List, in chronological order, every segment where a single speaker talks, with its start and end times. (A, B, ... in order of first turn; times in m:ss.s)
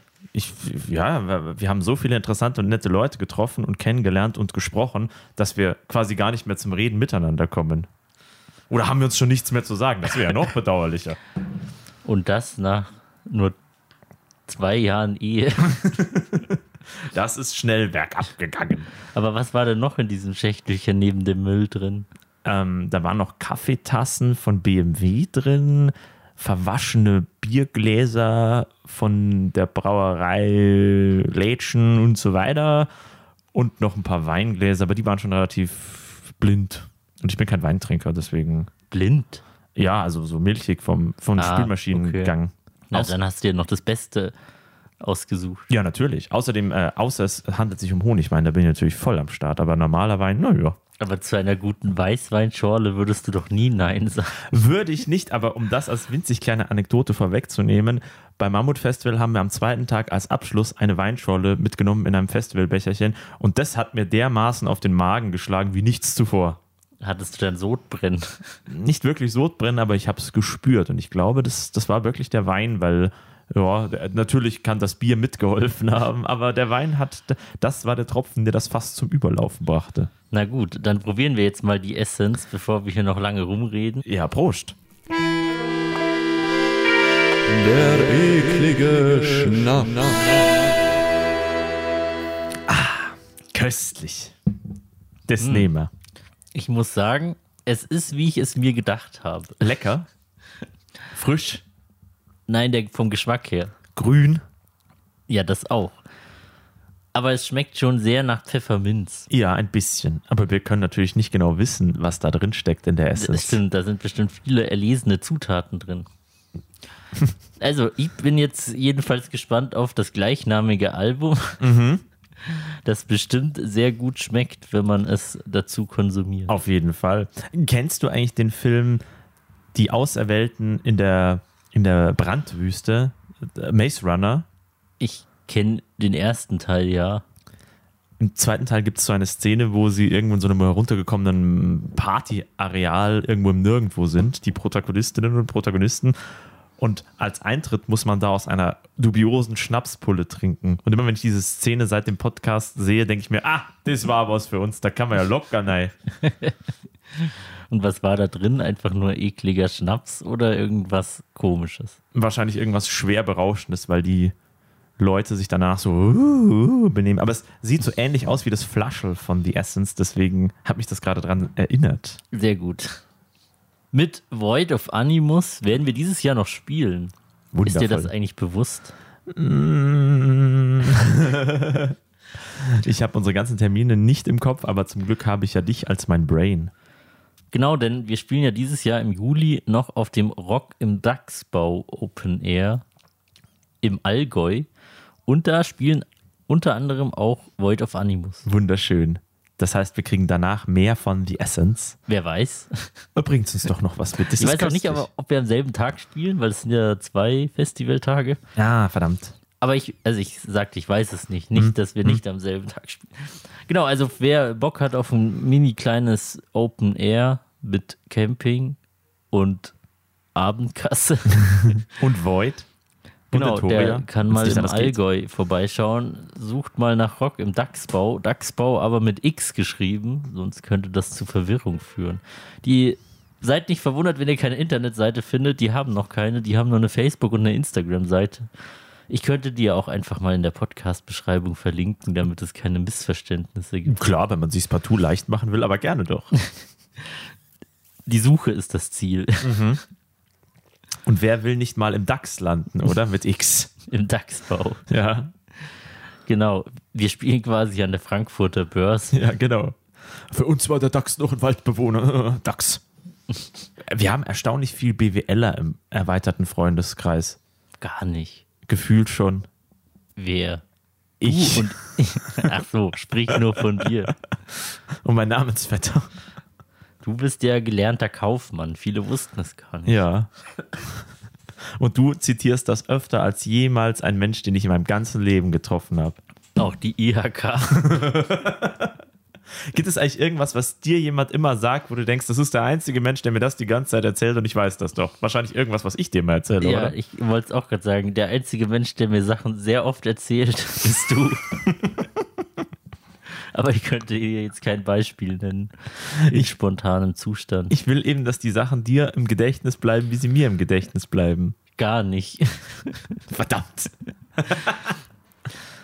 0:00.3-0:07.9 A
0:08.7-0:11.2 A
0:12.0-0:13.6 B
0:14.5-0:15.8 B
0:15.8-0:16.5 A
0:17.1-0:18.9 A
0:19.1-0:22.1 B
0:22.4-0:32.9 A
0:33.5-0:38.7 A
0:38.9-0:39.4 B
0:39.8-0:43.1 A
0:41.4-0:42.3 B
0:42.9-0:44.3 B
0:45.0-0:45.6 B
0:45.7-0:50.8 A
0:51.0-0:54.4 B
0:54.5-1:06.6 A
1:07.0-1:08.6 B
1:08.7-1:20.1 A
1:20.3-1:24.0 B
1:24.0-1:24.7 A
1:27.5-1:30.3 A
1:32.7-1:34.3 A
1:35.3-1:35.9 A
1:35.4-1:35.7 B
1:36.5-1:39.6 B
1:39.6-1:40.1 A
1:41.1-1:41.6 A
1:42.5-1:43.7 B
1:43.9-1:44.4 A
1:45.3-1:46.0 B
1:47.1-1:49.3 B
1:49.3-1:53.6 A
1:53.2-1:56.1 B
1:57.6-2:01.6 B
2:01.6-2:02.0 A
2:02.5-2:06.5 B
2:06.5-2:09.0 A
2:09.7-2:14.4 A
2:15.0-2:17.2 B
2:18.2-2:26.2 A
2:26.8-2:35.9 A
2:36.2-2:36.5 B
2:37.1-2:42.0 B
2:42.1-2:44.3 A
2:45.0-2:52.2 A
2:52.3-2:53.0 B
2:53.9-2:57.1 B
2:57.5-2:58.1 A
2:57.6-2:58.9 B
2:59.3-3:02.0 A
3:02.6-3:06.7 A
3:07.5-3:12.8 B
3:13.8-3:14.7 B
3:15.2-3:18.4 B
3:18.4-3:22.0 A
3:22.1-3:23.0 B
3:23.1-3:25.0 A
3:24.4-3:28.4 B
3:28.6-3:29.3 A
3:29.6-3:38.8 B
3:31.5-3:32.2 A
3:39.3-3:39.7 B
3:40.3-3:41.8 B
3:42.0-3:42.7 A
3:43.3-3:45.0 A
3:43.3-3:58.5 B
3:59.1-4:04.0 B
4:03.9-4:06.3 A
4:08.1-4:09.6 B
4:09.4-4:09.8 A
4:11.0-4:13.7 A
4:13.9-4:14.8 B
4:14.9-4:15.3 A
4:16.3-4:19.2 B
4:19.1-4:19.8 A
4:20.3-4:22.8 A
4:23.8-4:27.4 A
4:27.8-4:28.4 B
4:28.6-4:29.4 A
4:30.2-4:30.6 B
4:31.2-4:31.7 A
4:31.2-4:34.1 B
4:35.0-4:36.1 A
4:37.0-4:40.0 B
4:39.8-4:40.3 A
4:41.8-4:46.2 A
4:46.6-4:47.8 B
4:47.7-4:48.9 A
4:49.7-4:56.9 A
4:56.6-5:01.4 B
5:03.5-5:05.7 B
5:06.3-5:07.7 B
5:07.7-5:11.6 A
5:11.8-5:13.2 B
5:13.3-5:13.9 A